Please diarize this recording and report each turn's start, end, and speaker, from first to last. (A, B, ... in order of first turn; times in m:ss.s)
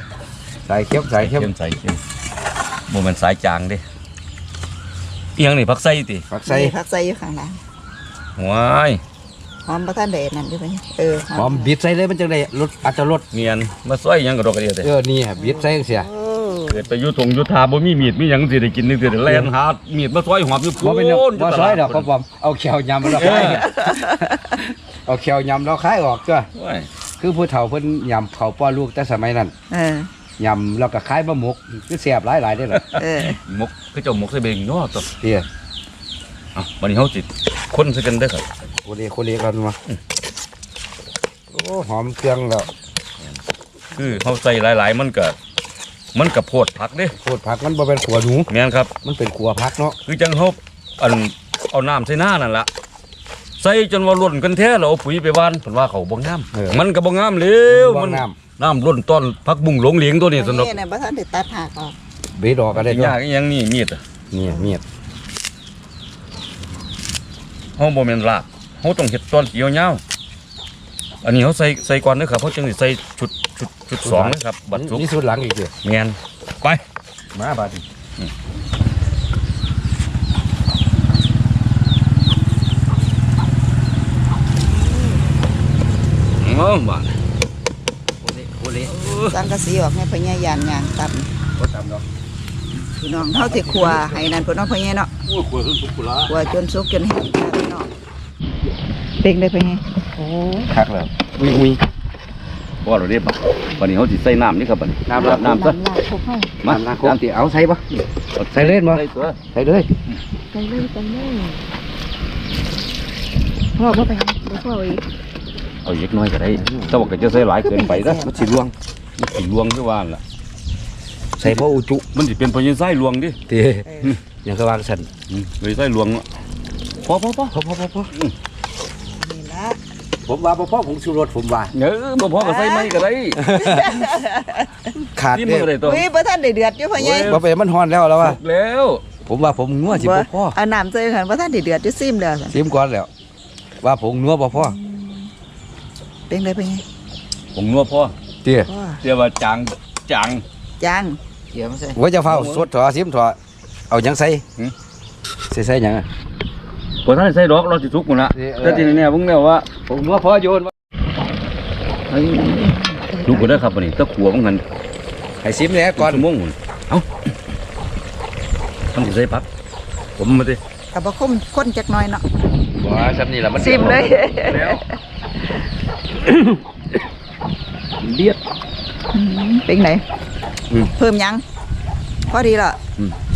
0:00.6-0:01.5 A
0:01.2-0:02.0 B
0:02.9-0:03.8 B
0:05.4-0:06.2 B
0:06.3-0:06.7 A
0:06.4-0:07.6 C
0:08.4-0:09.0 B
0:09.6-0:11.7 C
0:11.3-0:13.2 A
0:13.3-0:14.9 B
0:14.8-0:16.1 A
0:15.4-0:16.8 C
0:16.7-0:22.1 B
0:20.8-0:26.5 A
0:23.1-0:24.5 C
0:23.1-0:23.6 B
0:26.5-0:26.9 B
0:27.2-0:29.5 A
0:29.7-0:30.1 C
0:30.4-0:32.8 A
0:32.7-0:35.1 B
0:32.9-0:33.4 C
0:35.2-0:35.4 A
0:36.5-0:38.5 B
0:38.8-0:39.8 A
0:41.5-0:42.7 A
0:43.9-0:45.4 B
0:46.1-0:47.1 B
0:47.2-0:48.5 A
0:48.5-0:48.9 B
0:49.0-0:50.0 A
0:50.0-0:52.7 B
0:53.6-1:00.7 B
0:56.5-0:56.8 A
0:57.7-0:58.4 A
1:00.3-1:01.9 C
1:02.3-1:03.2 A
1:02.7-1:04.0 B
1:04.3-1:04.8 A
1:04.5-1:04.8 C
1:07.8-1:10.0 B
1:11.2-1:15.1 B
1:14.0-1:15.7 A
1:15.8-1:16.8 B
1:17.3-1:17.8 A
1:26.4-1:27.2 B
1:28.2-1:28.9 A
1:28.8-1:29.4 B
1:29.3-1:31.3 C
1:31.6-1:32.0 A
1:33.0-1:35.1 C
1:33.3-1:34.2 A
1:35.3-1:36.2 A
1:36.3-1:37.9 C
1:39.2-1:39.8 C
1:40.2-1:41.8 A
1:42.8-1:45.7 B
1:45.1-1:45.7 A
1:45.1-1:46.6 C
1:46.6-1:47.2 B
1:46.6-1:47.8 A
1:48.4-1:49.4 B
1:48.5-1:49.9 A
1:50.5-1:51.6 C
1:53.8-1:55.0 C
1:55.8-1:58.3 B
1:56.6-1:57.0 A
1:57.3-1:58.7 C
1:58.2-1:58.7 A
1:59.2-2:00.2 B
2:01.4-2:02.0 A
2:01.4-2:03.4 B
2:03.5-2:05.1 A
2:03.8-2:04.2 C
2:05.3-2:06.2 B
2:07.0-2:07.6 B
2:07.5-2:08.1 A
2:09.2-2:09.8 C
2:10.2-2:11.7 A
2:11.7-2:13.4 B
2:12.4-2:14.8 C
2:13.4-2:14.0 A
2:15.1-2:15.7 A
2:15.3-2:16.0 B
2:15.8-2:17.4 C
2:16.9-2:17.4 B
2:17.2-2:18.4 A
2:18.2-2:19.0 B
2:19.2-2:20.6 A
2:19.9-2:22.6 C
2:22.5-2:23.1 A
2:23.8-2:24.8 A
2:24.5-2:25.3 C
2:26.3-2:26.8 C
2:27.5-2:28.1 B
2:28.4-2:28.7 A
2:28.7-2:29.0 C
2:29.0-2:30.4 B
2:30.8-2:31.2 C
2:31.8-2:33.4 A
2:32.2-2:32.7 B
2:33.9-2:34.4 A
2:35.5-2:36.0 A
2:37.0-2:39.6 B
2:38.3-2:39.0 A
2:39.9-2:40.7 A
2:42.1-2:44.6 B
2:43.0-2:43.6 C
2:45.4-2:46.2 A
2:46.0-2:47.0 B
2:48.9-2:49.5 B
2:50.2-2:50.6 B
2:50.9-2:52.2 C
2:52.7-2:54.2 A
2:53.6-2:54.8 C
2:54.4-2:54.8 B
2:58.0-2:58.4 A
2:59.1-3:00.0 C
3:00.9-3:01.4 C
3:02.3-3:02.8 C